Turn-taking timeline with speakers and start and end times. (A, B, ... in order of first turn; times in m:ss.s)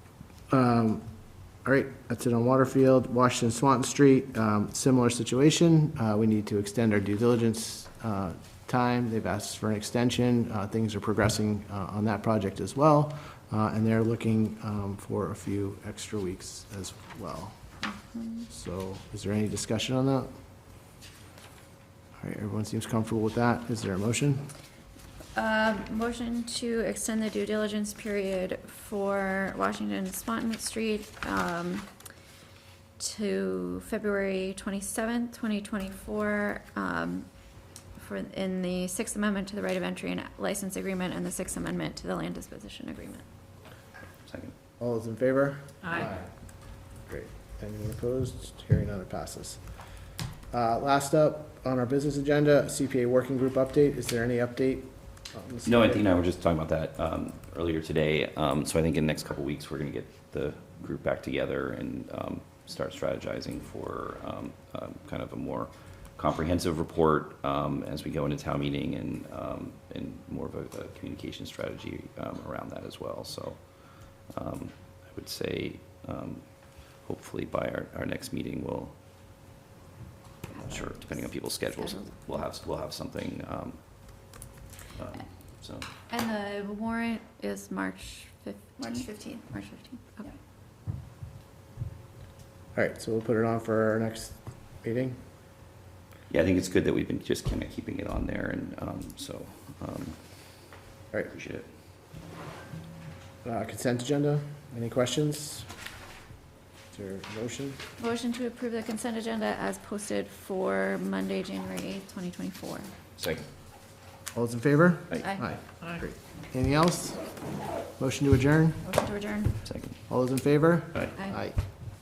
0:00.5-0:01.0 A
0:01.6-0:17.6 A
0:17.8-0:18.5 B
0:18.5-0:20.3 A
0:22.2-0:24.5 A
0:25.3-0:31.9 B
0:33.0-0:37.3 B
0:38.0-0:43.2 B
0:44.3-0:44.5 C
0:44.8-0:46.3 A
0:47.1-0:49.6 A
0:50.5-0:56.0 A
0:55.6-1:13.6 C
1:14.3-1:16.4 C
1:17.0-1:18.9 C
1:20.5-1:22.1 B
1:20.6-1:23.8 C
1:25.0-1:25.9 C
1:26.1-1:30.4 B
1:32.8-1:35.2 A
1:36.3-1:40.2 C
1:41.1-1:41.7 C
1:43.4-1:45.7 A
1:46.9-1:47.8 A
1:48.0-1:52.9 B
1:53.2-1:53.4 C
1:54.3-1:57.2 A
1:58.0-1:58.8 A
1:58.8-1:59.6 B
1:59.6-2:00.0 C
2:00.1-2:01.6 A